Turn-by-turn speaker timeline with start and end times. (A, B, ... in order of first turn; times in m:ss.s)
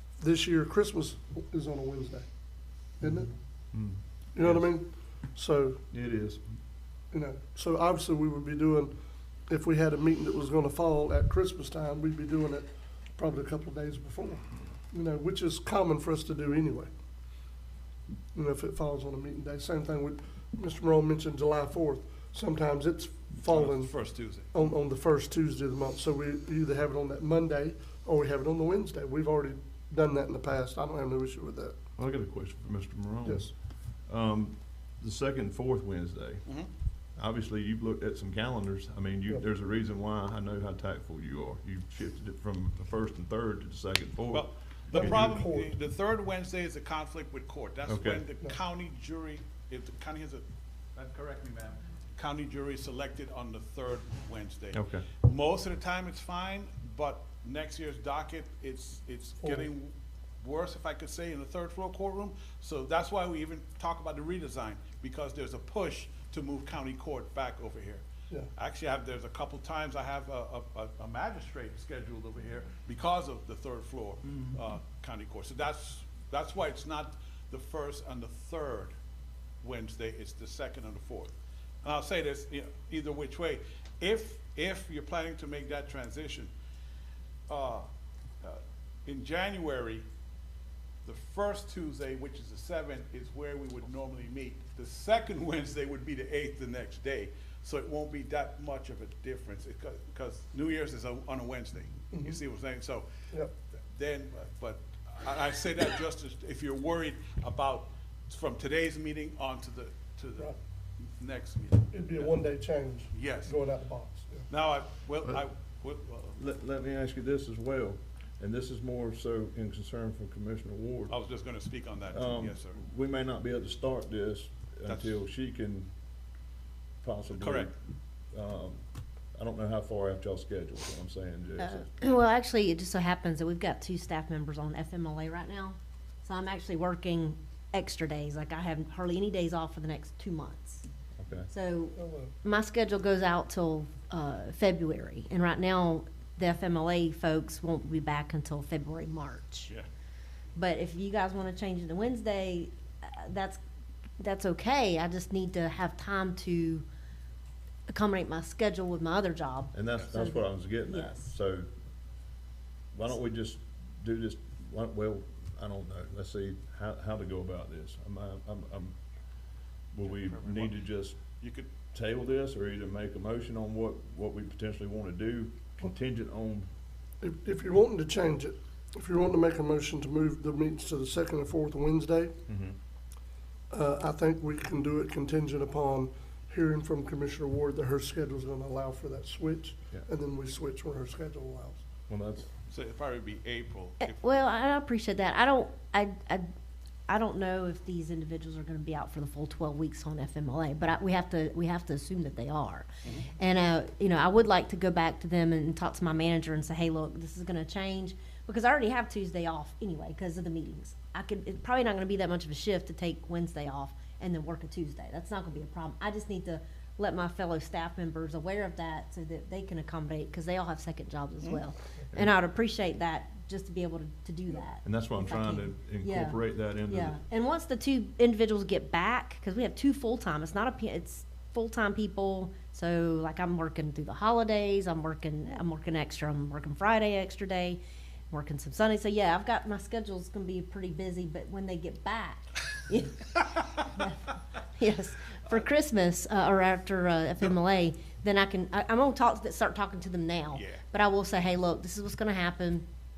0:00.2-0:02.3 A
0:03.0-0:03.3 A
0:03.7-0:04.7 B
0:04.3-0:05.8 A
0:05.9-0:06.4 B
0:07.1-0:08.9 A
0:09.5-0:16.9 A
0:18.3-0:23.9 A
0:23.5-0:24.5 C
0:24.5-0:31.8 A
0:32.0-0:33.5 B
0:33.2-0:33.5 A
0:34.1-0:36.4 B
0:37.2-0:45.4 B
0:44.3-1:08.0 C
0:44.9-0:45.8 A
0:47.8-0:48.2 B
0:54.7-0:55.1 B
0:59.4-0:59.6 A
1:08.6-1:18.9 C
1:19.6-1:21.3 C
1:21.8-1:26.5 C
1:27.5-1:27.9 C
1:28.4-1:30.0 C
1:31.0-1:43.1 C
1:42.1-1:42.4 A
1:43.9-1:50.5 C
1:51.0-1:52.4 C
1:51.9-1:54.5 A
1:53.1-1:53.5 C
1:54.5-1:56.4 C
1:56.4-2:01.1 B
2:01.1-2:02.8 C
2:02.1-2:05.9 B
2:04.9-2:05.2 C
2:07.0-2:07.7 B
2:07.3-2:07.7 C
2:08.3-2:08.8 B
2:09.3-2:11.9 B
2:11.6-2:20.8 D
2:21.2-2:21.5 B
2:21.5-2:29.7 D
2:21.9-2:22.3 A
2:30.6-2:33.6 D
2:34.2-2:36.8 D
2:37.9-2:41.2 D
2:39.7-2:41.7 B
2:42.9-2:49.0 B
2:49.9-2:51.2 B
2:50.0-2:50.8 C
2:51.4-2:51.7 C
2:51.9-2:56.7 B
2:57.2-3:02.3 A
3:02.5-3:02.8 B
3:03.7-3:11.8 A
3:12.1-3:12.5 B
3:12.7-3:14.2 C
3:14.0-3:16.4 D
3:17.1-3:57.8 D
3:23.0-3:23.3 C
3:44.8-3:47.2 B
3:58.3-4:12.8 D
4:10.5-4:10.8 C